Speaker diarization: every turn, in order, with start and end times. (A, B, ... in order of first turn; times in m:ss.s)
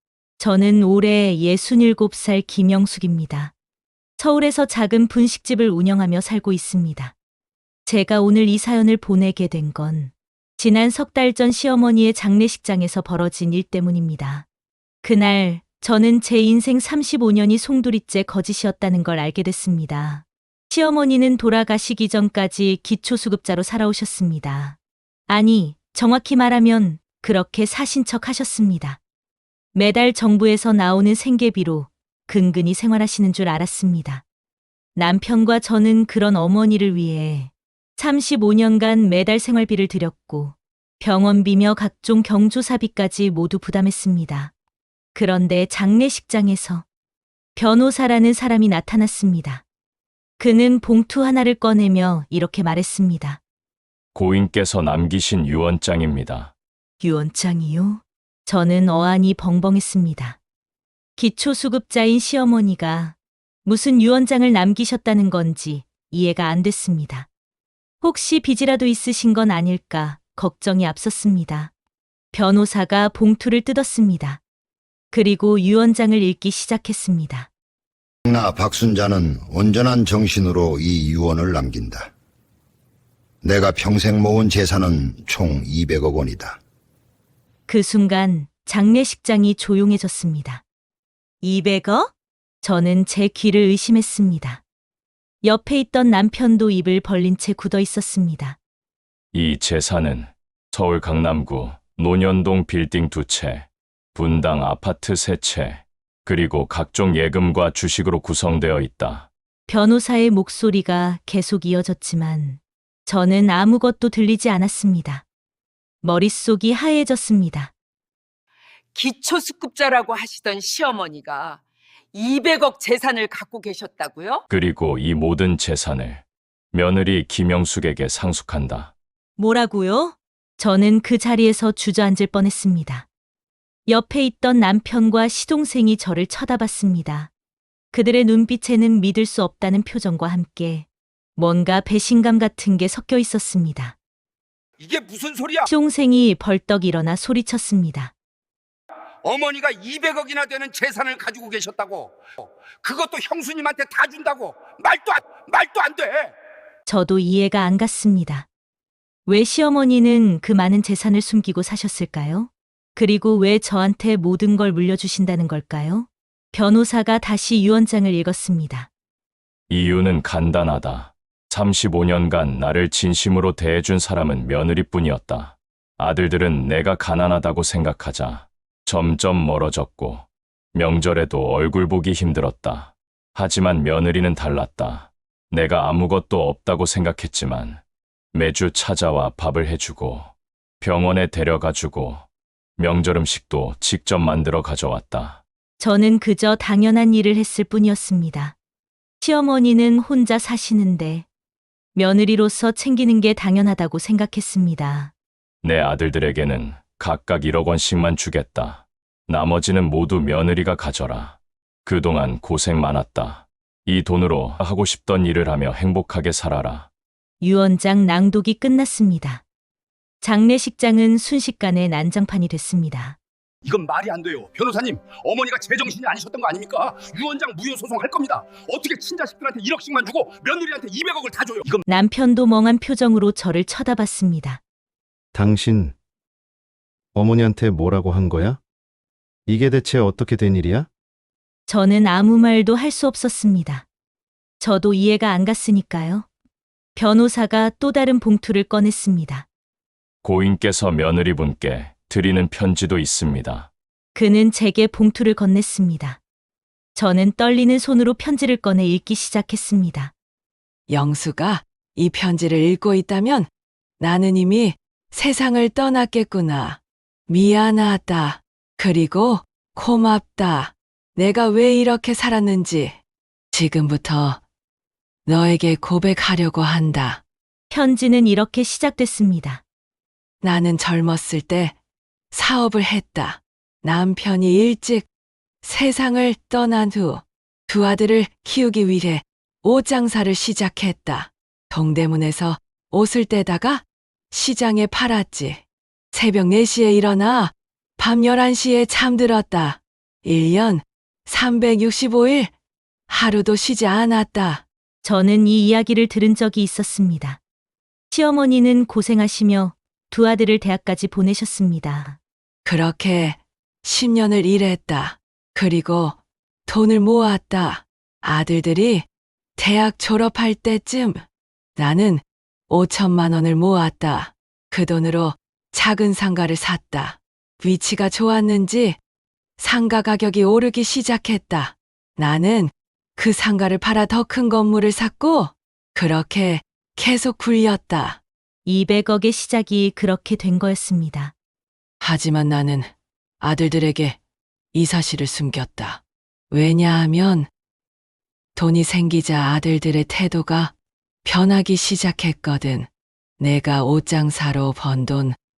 0:00.4-0:03.5 A
0:04.2-0:07.1 A
0:07.8-0:14.4 A
0:15.0-0:24.8 A
0:25.3-0:29.0 A
0:29.7-0:34.2 A
0:34.9-0:44.5 A
0:45.1-0:46.8 A
0:47.6-0:49.6 A
0:50.4-0:53.4 A
0:54.1-0:56.5 B
0:57.0-1:00.4 A
1:01.2-1:07.3 A
1:08.0-1:11.7 A
1:12.3-1:14.4 A
1:15.1-1:17.5 A
1:18.2-1:22.1 C
1:23.4-1:26.6 C
1:27.7-1:30.6 A
1:31.4-1:34.6 A
1:35.4-1:38.6 A
1:39.3-1:49.3 B
1:49.7-1:55.2 A
1:56.0-1:57.7 A
1:58.9-2:01.6 D
2:02.1-2:04.4 D
2:04.5-2:08.9 B
2:09.4-2:13.1 A
2:13.9-2:17.3 A
2:17.9-2:24.0 A
2:24.8-2:25.7 E
2:25.7-2:28.1 A
2:29.2-2:32.1 E
2:32.8-2:36.3 E
2:36.8-2:38.5 A
2:39.2-2:48.9 A
2:49.7-3:07.8 B
3:08.3-3:12.2 B
3:12.8-3:15.4 B
3:15.8-3:18.5 A
3:19.2-3:21.2 A
3:21.9-3:25.1 A
3:25.6-3:36.9 B
3:37.4-3:39.4 A
3:40.2-3:43.2 A
3:43.6-3:51.8 E
3:51.9-3:54.6 A
3:55.3-3:55.9 F
3:57.1-3:58.6 F
3:59.5-4:00.9 F
4:01.7-4:03.8 A
4:04.6-4:06.3 A
4:06.9-4:09.5 A
4:10.2-4:13.7 B
4:14.1-4:16.2 A
4:16.9-4:20.1 A
4:20.9-4:23.5 G
4:24.0-4:33.0 G
4:33.5-4:34.4 G
4:35.2-4:37.2 G
4:37.7-4:39.6 A
4:40.4-4:41.7 G
4:42.3-4:45.1 G
4:45.6-5:02.5 G
5:03.1-5:04.6 G
5:05.0-5:07.4 A
5:08.1-5:12.2 A
5:12.6-5:21.2 G
5:21.8-5:29.0 G
5:29.6-5:38.2 G
5:38.6-5:41.3 A
5:42.0-5:44.2 G
5:44.7-5:47.5 G
5:48.6-5:50.7 G
5:51.2-5:52.9 G
5:53.4-5:55.4 G